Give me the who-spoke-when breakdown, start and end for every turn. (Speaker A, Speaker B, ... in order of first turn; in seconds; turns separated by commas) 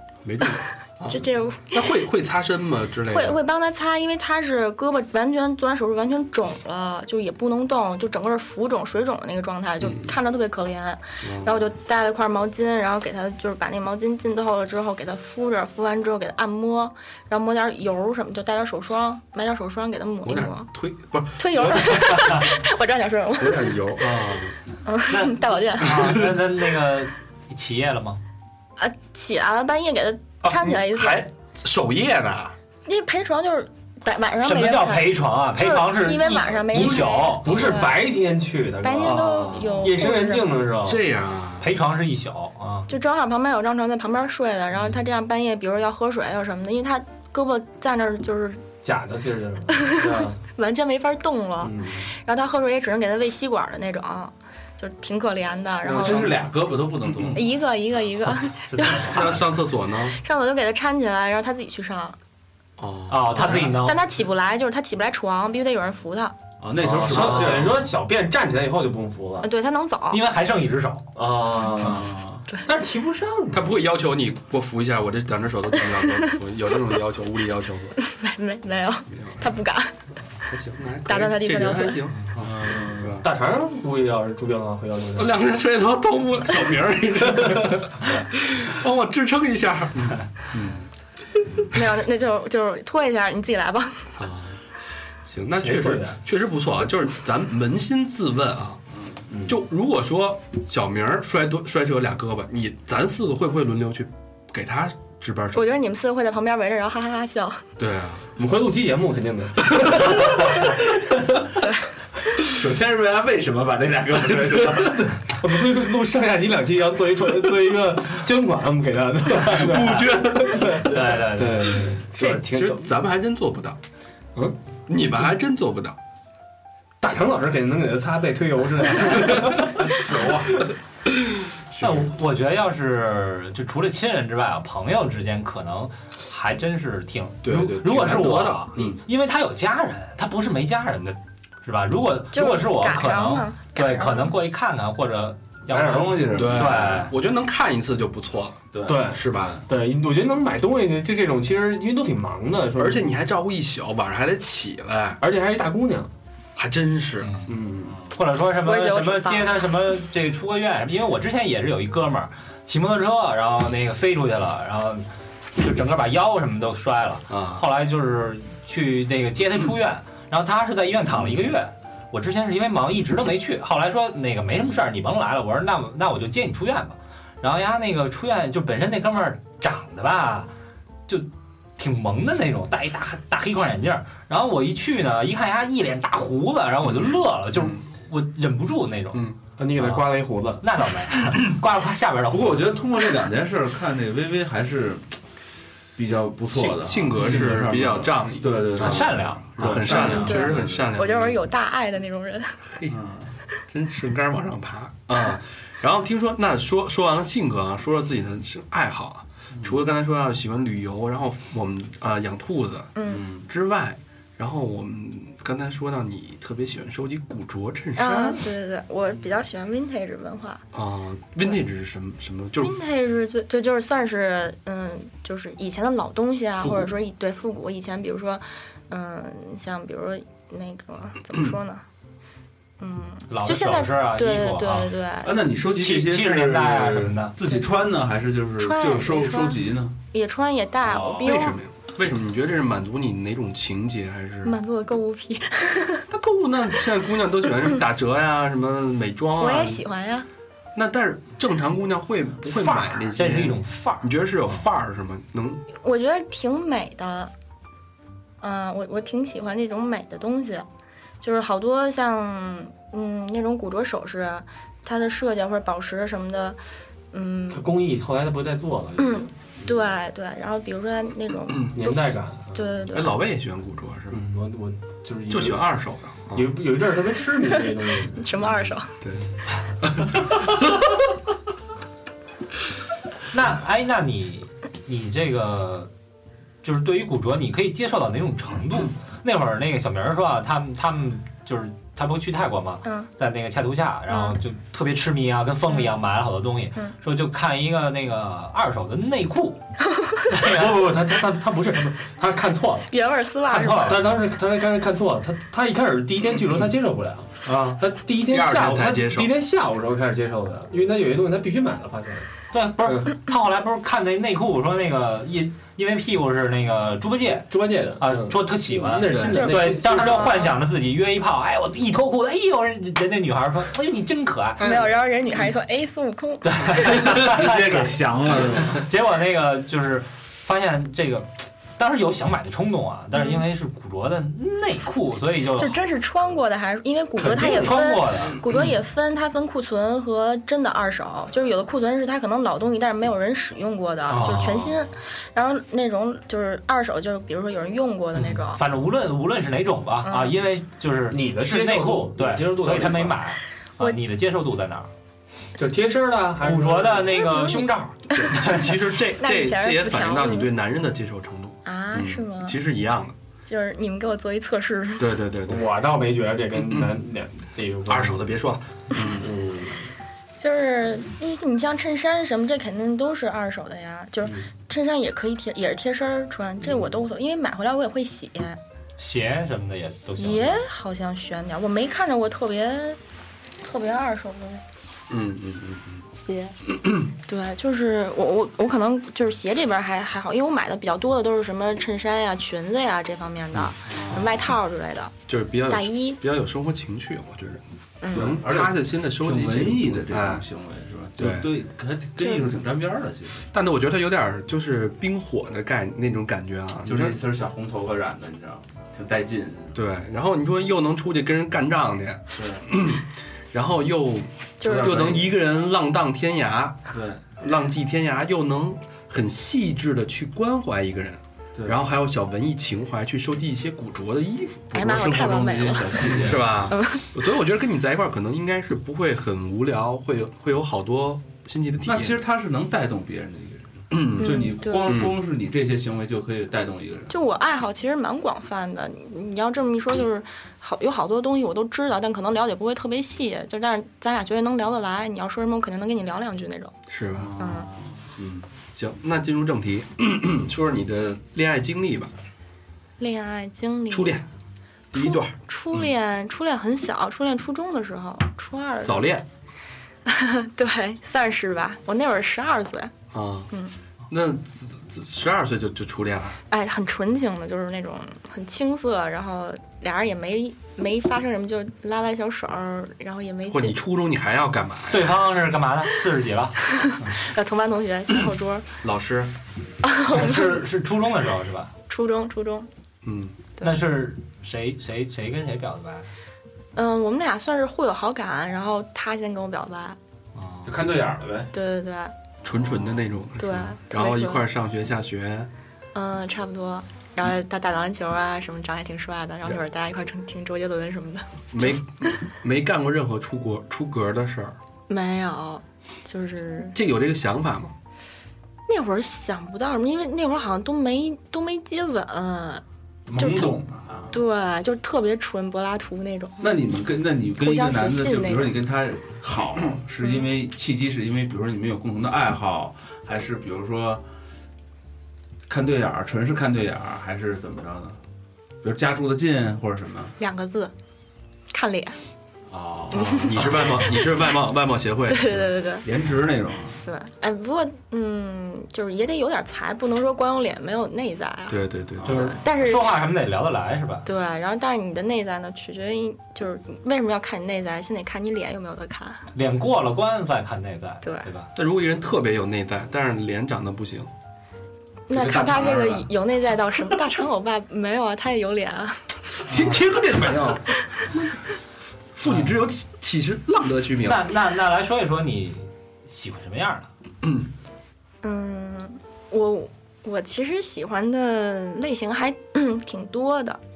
Speaker A: 0.2-3.4, Speaker B: 1.1-1.8, Speaker B: 3.1-20.7, Speaker A: 9.8-10.2, Speaker A: 11.2-11.7, Speaker A: 20.2-22.3, Speaker B: 21.4-24.2, Speaker A: 23.4-24.6, Speaker B: 24.8-26.2, Speaker C: 25.1-28.2, Speaker A: 25.9-26.4, Speaker B: 28.8-31.2, Speaker A: 30.4-32.5, Speaker B: 32.8-38.0, Speaker C: 34.4-37.5, Speaker D: 36.7-39.3, Speaker B: 38.8-40.6, Speaker A: 39.0-40.1, Speaker D: 39.8-41.0, Speaker A: 40.8-41.7, Speaker C: 41.6-42.9, Speaker B: 42.9-48.6, Speaker D: 48.8-50.4, Speaker B: 49.7-56.4, Speaker D: 51.6-52.1, Speaker A: 55.8-56.3, Speaker E: 55.9-57.5, Speaker B: 57.3-59.4, Speaker C: 58.7-59.4, Speaker A: 58.9-60.2, Speaker B: 60.0-62.2, Speaker A: 62.8-63.5, Speaker C: 63.1-64.0, Speaker B: 63.4-66.3, Speaker E: 66.6-67.8, Speaker D: 66.8-69.5, Speaker C: 67.0-67.7, Speaker B: 69.4-70.2, Speaker C: 70.1-71.1, Speaker D: 71.2-72.1, Speaker E: 71.8-72.5, Speaker D: 72.6-73.7, Speaker A: 73.5-78.0, Speaker B: 75.8-76.3, Speaker B: 78.0-79.9, Speaker A: 79.1-79.6, Speaker A: 80.5-83.2, Speaker B: 81.1-82.0, Speaker E: 82.4-83.2, Speaker D: 83.2-85.4, Speaker A: 85.2-90.9, Speaker B: 91.6-94.2, Speaker A: 94.2-94.6, Speaker A: 95.2-98.8, Speaker D: 95.5-96.2, Speaker E: 99.0-99.2, Speaker A: 99.5-105.7, Speaker B: 105.5-107.6, Speaker A: 107.8-108.3, Speaker D: 108.3-110.8, Speaker E: 112.3-115.1, Speaker D: 114.6-122.9, Speaker A: 119.5-120.8, Speaker C: 120.8-122.0, Speaker A: 122.1-123.8, Speaker A: 124.9-126.0, Speaker D: 127.0-130.6, Speaker A: 131.7-132.1, Speaker C: 131.8-147.1, Speaker A: 137.4-139.0, Speaker B: 142.3-144.4, Speaker E: 145.7-147.0, Speaker A: 146.3-148.6, Speaker E: 148.7-149.6, Speaker D: 148.9-153.1, Speaker A: 149.1-149.6, Speaker A: 152.8-155.2, Speaker D: 155.2-156.1, Speaker A: 156.6-157.4, Speaker C: 157.2-157.5, Speaker D: 157.5-157.8, Speaker E: 157.7-158.2, Speaker C: 158.1-165.1, Speaker B: 158.6-159.7, Speaker C: 165.6-180.5, Speaker A: 167.3-167.7, Speaker C: 181.1-192.8, Speaker A: 187.5-187.8, Speaker D: 189.6-190.6, Speaker E: 192.3-195.2, Speaker E: 195.9-200.9, Speaker A: 196.5-201.4, Speaker C: 198.8-200.0, Speaker B: 200.0-202.7, Speaker E: 202.9-203.3, Speaker A: 203.7-218.4, Speaker B: 212.9-213.3, Speaker E: 213.1-213.4, Speaker B: 217.9-220.6, Speaker A: 220.7-222.7, Speaker B: 222.6-231.8, Speaker B: 232.8-235.4, Speaker C: 233.3-234.9, Speaker E: 235.2-239.9, Speaker C: 235.6-237.3, Speaker B: 238.6-241.6, Speaker E: 240.9-241.3, Speaker A: 241.2-244.6, Speaker B: 244.4-246.1, Speaker A: 246.1-249.8, Speaker B: 249.4-250.3, Speaker A: 250.7-255.6, Speaker C: 252.4-254.2, Speaker B: 255.7-257.3, Speaker B: 258.4-260.6, Speaker B: 261.2-266.6, Speaker B: 267.1-267.7, Speaker D: 267.5-269.3, Speaker B: 269.0-272.0, Speaker A: 271.5-271.8, Speaker D: 271.7-272.6, Speaker B: 272.5-273.2, Speaker A: 272.9-274.2, Speaker D: 274.1-275.7, Speaker A: 275.3-276.5, Speaker D: 276.3-278.3, Speaker B: 278.2-278.9, Speaker A: 279.8-280.8, Speaker C: 283.3-285.9, Speaker C: 286.6-299.6, Speaker B: 294.1-294.4, Speaker C: 300.3-300.7, Speaker D: 300.4-302.9, Speaker B: 302.9-304.0, Speaker C: 303.5-304.1, Speaker D: 303.8-312.3, Speaker C: 307.4-307.8, Speaker A: 308.2-309.3, Speaker C: 312.5-324.7, Speaker D: 312.8-313.1, Speaker D: 317.5-320.3, Speaker B: 319.2-320.6, Speaker A: 324.6-324.9, Speaker B: 324.6-327.0, Speaker C: 326.6-335.8, Speaker E: 326.6-328.8, Speaker B: 333.1-333.4, Speaker B: 335.6-348.6, Speaker C: 337.2-338.4, Speaker A: 344.1-344.8, Speaker C: 344.1-344.4, Speaker C: 348.1-354.9, Speaker B: 350.0-350.4, Speaker D: 351.1-353.2, Speaker D: 355.6-357.3, Speaker C: 356.4-358.7, Speaker B: 357.2-358.4, Speaker A: 358.1-363.1, Speaker B: 359.1-360.5, Speaker B: 361.6-362.6, Speaker B: 363.5-365.1, Speaker A: 365.0-365.7, Speaker D: 365.5-368.3, Speaker A: 366.6-366.9, Speaker A: 367.9-369.3, Speaker D: 369.2-369.8, Speaker B: 370.4-378.6, Speaker C: 379.0-380.6, Speaker B: 380.1-383.0, Speaker B: 383.6-384.6, Speaker A: 385.1-386.1, Speaker B: 386.2-386.6, Speaker A: 386.7-387.1, Speaker B: 387.3-395.1, Speaker A: 393.5-394.2, Speaker E: 393.9-394.4, Speaker A: 395.3-400.4, Speaker B: 395.6-396.2, Speaker B: 398.0-398.4, Speaker E: 398.1-403.5, Speaker A: 401.2-401.5, Speaker A: 403.5-407.2, Speaker E: 406.9-409.8, Speaker A: 409.7-425.1, Speaker E: 412.3-412.7, Speaker B: 414.6-415.2, Speaker E: 414.6-415.3, Speaker E: 416.9-417.2, Speaker B: 424.7-427.1, Speaker E: 424.7-426.7, Speaker A: 426.2-432.2, Speaker E: 431.9-437.2, Speaker A: 433.9-435.1, Speaker B: 434.2-435.0, Speaker B: 437.1-446.7, Speaker A: 446.9-447.3, Speaker E: 447.1-448.0, Speaker B: 447.4-447.7, Speaker A: 448.2-452.1, Speaker B: 453.0-454.2, Speaker A: 453.9-454.2, Speaker A: 454.9-455.3, Speaker B: 454.9-459.1, Speaker A: 458.8-459.2, Speaker B: 460.1-462.9, Speaker A: 463.1-463.5, Speaker A: 464.1-466.4, Speaker B: 466.5-473.8, Speaker A: 473.5-475.2, Speaker C: 474.9-476.6, Speaker B: 476.7-478.6, Speaker A: 478.8-479.3, Speaker B: 479.8-480.6, Speaker C: 480.1-481.7, Speaker B: 481.9-482.7, Speaker A: 483.0-483.4, Speaker C: 483.6-486.1, Speaker B: 486.7-490.0, Speaker C: 490.3-490.8, Speaker E: 490.6-491.5, Speaker B: 491.5-492.1, Speaker A: 492.4-495.5, Speaker B: 493.4-494.4, Speaker B: 495.9-502.2, Speaker A: 501.5-504.6, Speaker B: 504.9-506.8, Speaker A: 506.7-507.7, Speaker B: 508.7-512.6, Speaker E: 513.1-514.2, Speaker B: 513.1-516.5, Speaker E: 516.4-524.0, Speaker B: 517.4-518.6, Speaker B: 520.0-520.3, Speaker E: 525.5-528.0, Speaker E: 528.6-530.1, Speaker B: 530.2-530.7, Speaker B: 531.5-532.0, Speaker E: 532.5-533.8, Speaker B: 532.9-534.3, Speaker A: 533.1-535.5, Speaker B: 535.1-535.9, Speaker E: 535.8-536.8, Speaker B: 536.8-543.0, Speaker A: 541.5-542.3, Speaker C: 542.0-544.1, Speaker B: 544.0-549.2, Speaker C: 549.3-551.5, Speaker A: 551.5-554.1, Speaker B: 555.1-559.5, Speaker A: 555.1-556.1, Speaker A: 559.5-560.6, Speaker A: 562.2-564.3, Speaker C: 564.0-566.9, Speaker B: 568.2-573.6